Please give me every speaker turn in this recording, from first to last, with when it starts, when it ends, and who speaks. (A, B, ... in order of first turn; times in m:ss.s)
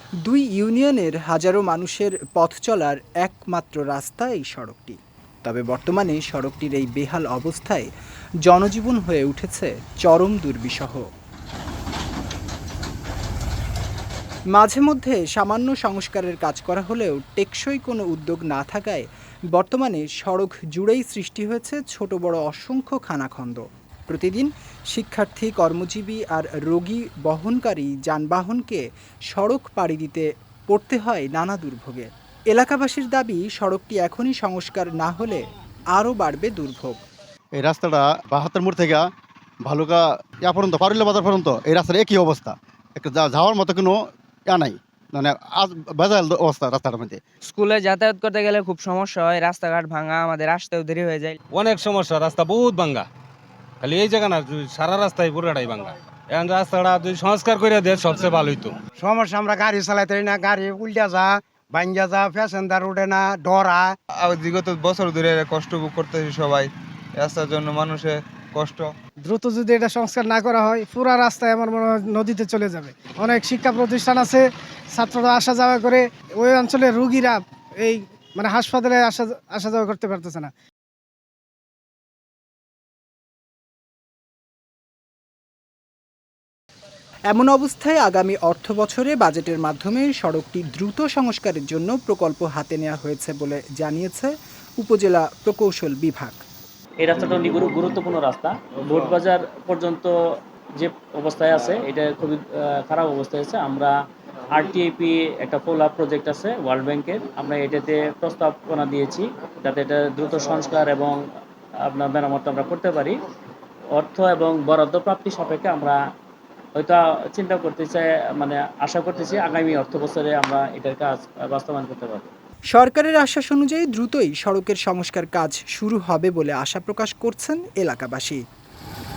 0:00.2-0:07.9 A
0:08.4-0:11.0 A
0:14.5-0:37.0 A
0:37.6-0:39.0 B
0:39.6-0:47.2 B
0:47.4-0:51.4 C
0:51.5-0:53.0 D
0:53.8-0:58.7 D
0:59.0-1:03.9 E
1:04.2-1:08.9 F
1:09.2-1:20.5 G
1:27.3-1:36.4 A
1:37.0-1:40.1 H
1:40.8-1:43.9 H
1:44.5-1:51.2 H
1:51.8-1:53.1 H
1:53.9-1:56.0 H
1:56.8-2:02.3 H
2:02.7-2:08.4 A